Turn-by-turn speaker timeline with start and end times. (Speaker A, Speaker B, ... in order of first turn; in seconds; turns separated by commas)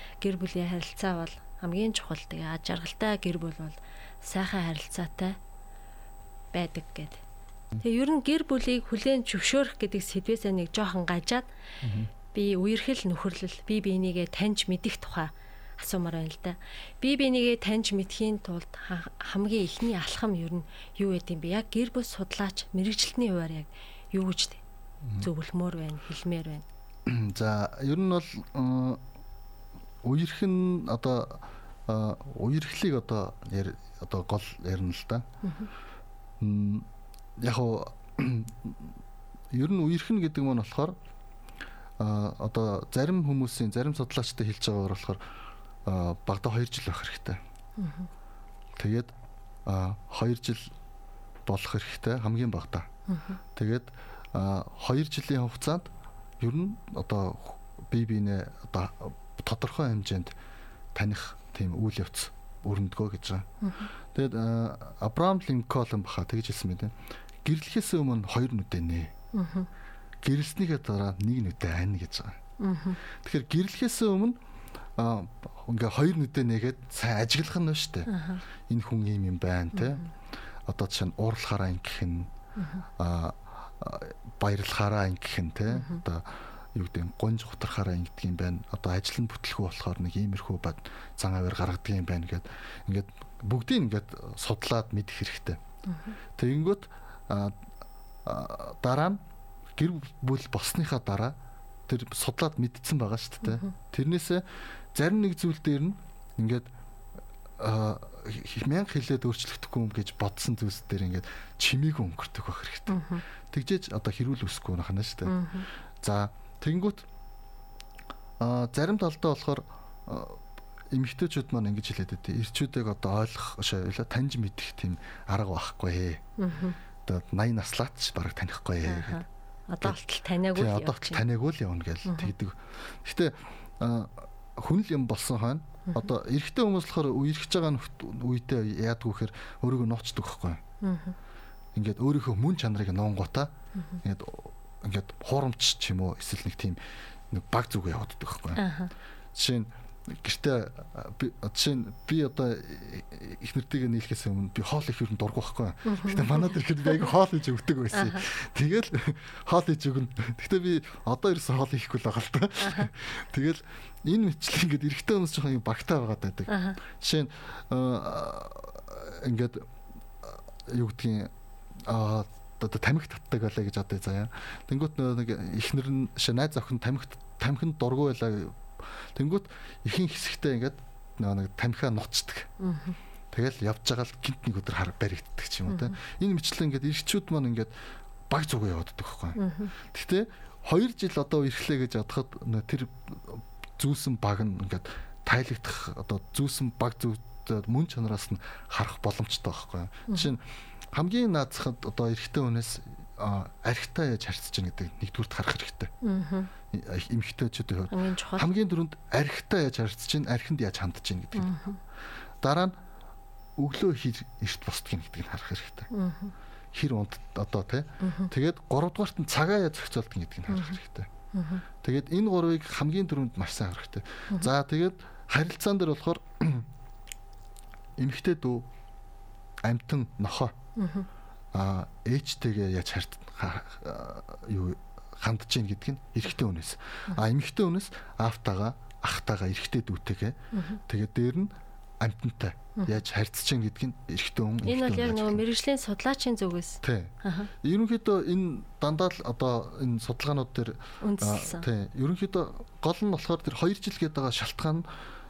Speaker A: 0.2-5.4, Speaker A: 6.5-7.2, Speaker A: 7.8-11.4, Speaker B: 11.8-12.1, Speaker A: 12.3-24.6, Speaker B: 25.0-25.3, Speaker A: 25.2-26.6, Speaker B: 27.1-29.0, Speaker B: 30.0-35.2, Speaker A: 35.4-35.7, Speaker B: 36.4-36.9, Speaker B: 37.4-39.0, Speaker B: 39.5-41.0, Speaker B: 42.0-45.2, Speaker B: 45.9-47.4, Speaker A: 47.8-48.1, Speaker B: 48.8-49.1, Speaker B: 49.7-50.7, Speaker B: 51.5-52.9, Speaker A: 53.1-53.4, Speaker B: 53.5-60.4, Speaker B: 61.0-63.5, Speaker A: 63.6-63.9, Speaker B: 64.1-66.9, Speaker B: 67.4-69.1, Speaker A: 69.3-69.7, Speaker B: 70.2-72.4, Speaker A: 72.6-73.0, Speaker B: 73.2-74.4, Speaker B: 75.0-78.1, Speaker A: 78.1-78.4, Speaker B: 78.7-80.1, Speaker B: 80.7-82.3, Speaker A: 82.6-82.8, Speaker B: 83.0-95.6, Speaker A: 85.7-86.0, Speaker A: 95.9-96.2, Speaker B: 96.4-97.6, Speaker B: 98.2-99.2, Speaker B: 99.8-101.4, Speaker B: 101.9-106.7, Speaker A: 103.4-103.7, Speaker B: 107.6-115.4, Speaker A: 112.9-113.2, Speaker A: 115.3-115.7, Speaker B: 116.0-117.1, Speaker B: 118.4-126.2, Speaker A: 126.4-126.8, Speaker B: 127.0-129.2, Speaker A: 128.8-131.2, Speaker B: 130.5-140.6, Speaker A: 132.1-132.3, Speaker A: 140.8-141.2, Speaker B: 141.8-146.8, Speaker B: 147.3-148.6, Speaker A: 148.6-148.9, Speaker B: 149.3-169.7, Speaker A: 155.8-157.0, Speaker A: 157.9-158.2, Speaker A: 162.6-162.9, Speaker A: 166.5-166.8, Speaker B: 170.2-171.3, Speaker B: 171.9-182.5, Speaker A: 182.6-183.0, Speaker B: 183.3-187.7, Speaker A: 185.7-186.0, Speaker B: 188.3-200.4, Speaker A: 189.4-189.7, Speaker B: 200.9-205.9, Speaker A: 206.0-206.5, Speaker B: 206.7-211.6, Speaker A: 207.9-208.5, Speaker A: 211.4-211.8, Speaker B: 212.4-212.8, Speaker B: 213.6-215.9, Speaker A: 215.9-216.3, Speaker B: 216.7-221.1, Speaker A: 218.0-218.3, Speaker A: 220.5-220.8, Speaker A: 221.3-221.6, Speaker B: 221.8-226.7, Speaker B: 228.0-228.7, Speaker B: 229.6-230.6, Speaker A: 230.8-231.1, Speaker B: 231.5-240.4, Speaker A: 240.5-240.8, Speaker B: 240.9-245.4, Speaker A: 244.7-247.5, Speaker B: 246.8-254.9, Speaker A: 251.0-251.7